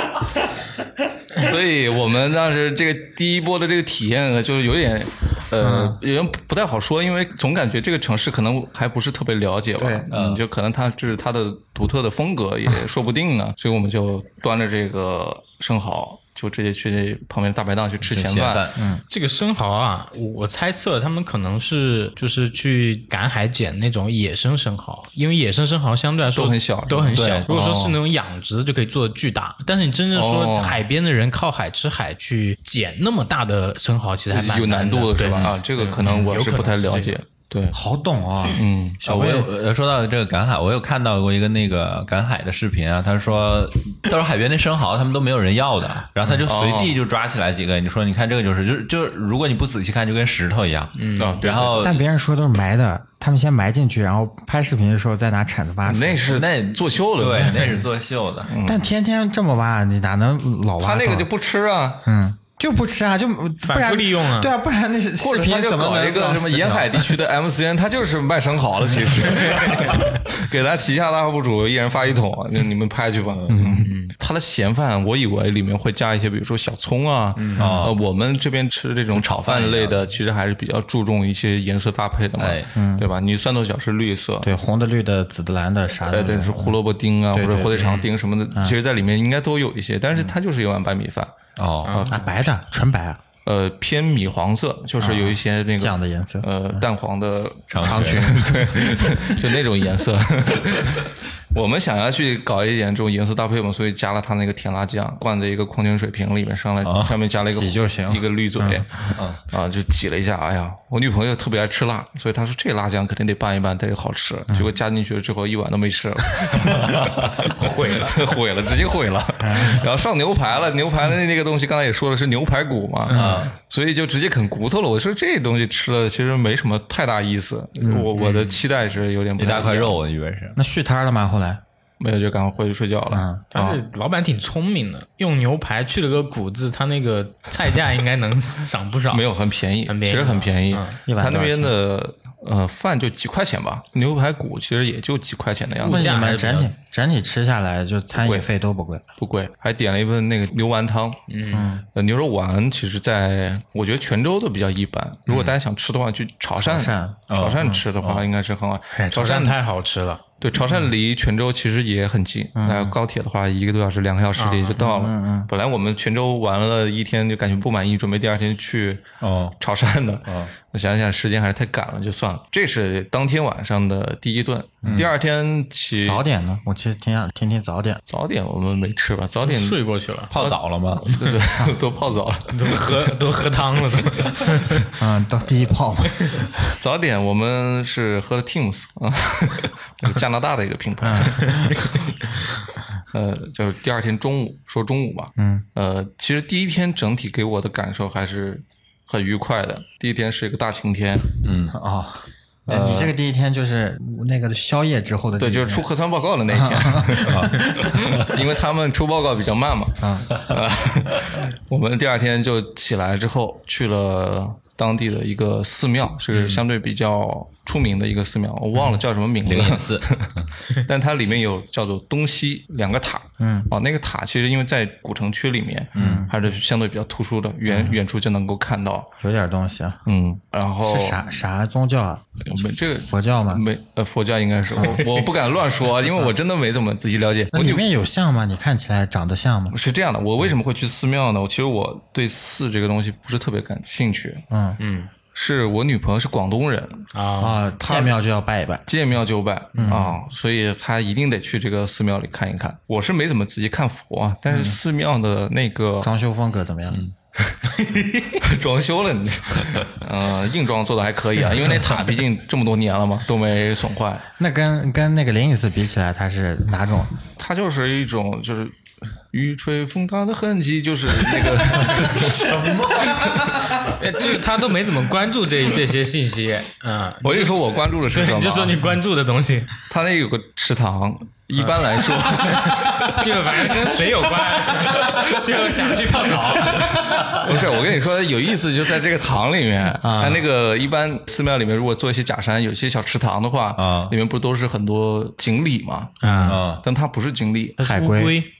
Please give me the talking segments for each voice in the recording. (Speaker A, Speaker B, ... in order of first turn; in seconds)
Speaker A: 1.3-18.6, 26.3-27.9, 30.1-30.8, 34.3-37.8, 38.5-39.0, 46.5-47.0, 51.1-52.0, 55.9-57.8, 58.5-58.8, 60.8-62.1, 65.2-84.5, 86.1-91.3, 91.9-92.3, 93.4-117.0, 117.7-130.0, 132.0-133.8, 139.1-146.1, 148.1-148.5, 149.2-151.2, 151.9-159.5, 160.4-169.0, 169.6-176.2, 178.1-179.8, 180.3-183.2, 186.8-192.3, 193.1-201.4, 202.7-203.1, 205.4-229.1, 230.1-231.2, 232.4-237.8, 239.7-244.4, 245.3-247.1, 247.8-248.1, 248.9-256.1, 258.3-264.2, 267.4-268.8, 269.3-273.7, 277.2-278.8, 279.9-283.5, 287.1-297.8
Speaker B: 5.6-6.0, 9.8-10.1, 18.7-19.0, 27.5-27.9, 37.7-39.5, 51.8-56.4, 58.6-61.3, 62.0-67.1, 73.5-73.9, 77.6-77.8, 82.7-83.1, 84.4-86.8, 87.3-87.8, 92.1-93.2, 95.0-96.8, 97.8-99.2, 107.5-109.1, 114.5-114.7, 119.4-119.8, 127.8-128.1, 130.6-131.6, 133.1-133.4, 141.1-141.8, 145.8-149.0, 151.5-151.8, 156.6-157.8, 162.6-162.9, 164.8-165.5, 174.8-175.1, 176.0-178.0, 185.0-186.6, 191.0-191.7, 195.4-195.6, 201.7-205.9, 206.5-207.3, 210.0-210.3, 223.4-223.7, 225.9-226.3, 227.7-228.0, 229.2-230.0, 230.8-232.2, 232.9-233.6, 234.8-235.0, 237.5-239.7, 244.5-244.8, 247.4-248.8, 249.7-250.2, 254.5-254.8, 256.0-257.0, 264.4-267.2, 273.0-273.4, 290.0-290.4, 297.8-298.4
Speaker C: 10.1-10.4, 18.0-18.8, 27.1-27.5, 39.0-51.9, 56.3-58.5, 77.5-77.9, 79.2-80.0, 82.4-82.7, 91.6-92.0, 97.7-98.5, 106.8-107.1, 109.1-109.4, 116.7-117.5, 123.1-123.5, 129.4-130.6, 157.3-158.2, 169.2-169.6, 170.2-170.5, 180.3-181.3, 201.4-201.8, 207.2-208.3, 219.4-220.5, 225.9-226.3, 271.8-273.3, 293.8-294.1, 296.4-296.8
Speaker D: 19.1-37.2, 51.0-51.4, 63.6-64.5, 73.8-74.1, 77.4-77.7, 87.7-88.1, 91.8-92.1, 117.5-118.3, 123.1-123.3, 133.5-139.2, 139.9-141.0, 145.8-146.7, 151.3-151.7, 158.9-160.2, 164.4-164.8, 179.4-180.3, 182.5-184.9, 244.8-245.1, 247.1-247.6, 257.8-258.2, 273.8-279.7, 281.6-287.3, 296.2-296.6, 297.8-298.5